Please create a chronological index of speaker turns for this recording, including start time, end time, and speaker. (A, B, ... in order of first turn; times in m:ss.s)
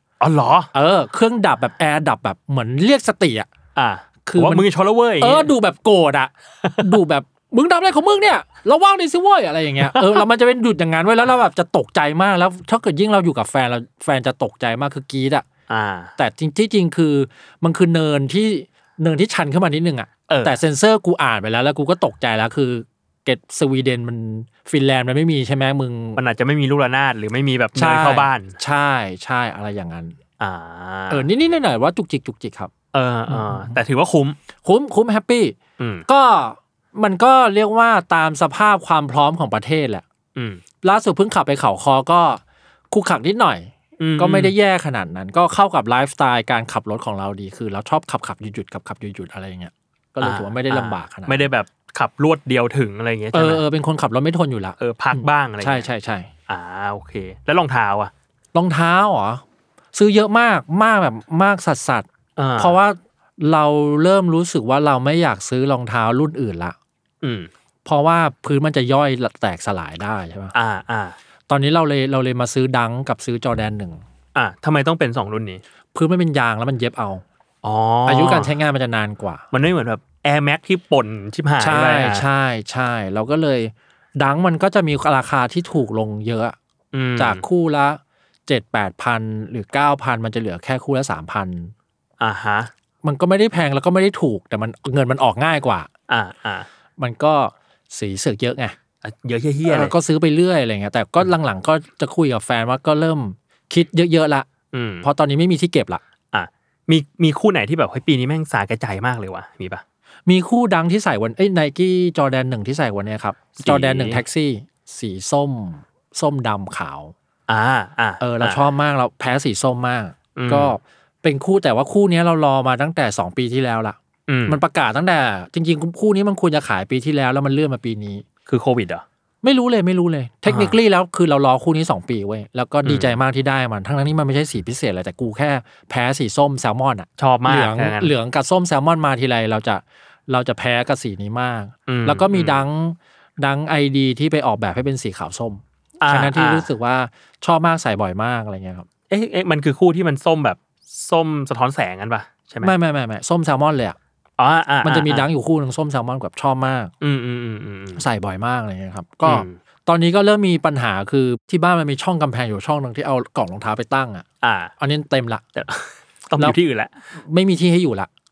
0:00.2-0:00.7 A
0:00.7-0:03.5 B
0:03.7-0:05.5 A
0:04.2-0:04.6 B
0:05.2-0:15.4 B
0:06.6-0:07.0 A
0:09.9-0:10.2 A
0:15.7-0:16.1 A
0:16.2-0:26.2 B
0:20.3-0:20.6 A
0:26.2-0:28.6 A
0:27.8-0:30.2 B
0:30.4-0:31.2 A
0:31.1-0:32.7 B
0:32.9-0:34.4 A
0:33.3-0:33.8 B
0:34.6-0:35.6 B
0:35.8-0:36.0 A
0:36.1-0:40.0 B
0:40.3-0:40.6 A
0:40.8-0:51.5 B
0:44.0-0:44.5 A
0:50.2-0:53.6 A
0:53.3-0:56.3 B
0:54.8-0:55.9 A
0:56.5-0:58.1 A
0:58.5-0:59.4 B
0:59.9-1:06.8 B
1:02.4-1:02.8 A
1:07.2-1:07.5 A
1:07.8-1:10.5 B
1:10.5-1:11.2 A
1:11.5-1:14.0 B
1:14.3-1:15.6 A
1:15.9-1:17.2 B
1:17.6-1:18.5 A
1:18.1-1:19.4 B
1:19.5-1:22.3 A
1:21.6-1:26.6 B
1:26.9-1:27.4 A
1:27.2-1:31.7 B
1:32.2-1:32.7 A
1:33.0-1:35.9 B
1:36.1-1:36.7 A
1:37.0-1:38.7 B
1:39.0-1:39.9 A
1:39.6-1:44.5 B
1:44.7-1:45.0 A
1:45.0-1:46.0 B
1:46.3-1:49.8 A
1:50.2-1:57.1 B
1:53.6-1:54.2 A
1:57.5-1:58.7 A
1:58.2-2:08.2 B
2:00.4-2:00.7 A
2:04.3-2:04.6 A
2:08.5-2:09.0 A
2:09.4-2:28.9 B
2:10.4-2:10.8 A
2:12.8-2:13.2 A
2:17.2-2:18.1 A
2:21.9-2:22.6 A
2:26.0-2:26.7 A
2:29.1-2:32.7 A
2:32.6-2:34.0 B
2:34.4-2:35.3 A
2:34.8-2:36.9 B
2:37.0-2:38.0 A
2:38.0-2:44.2 B
2:39.2-2:39.6 A
2:44.4-2:44.7 A
2:44.8-2:45.4 B
2:45.5-2:46.9 A
2:47.1-2:48.1 B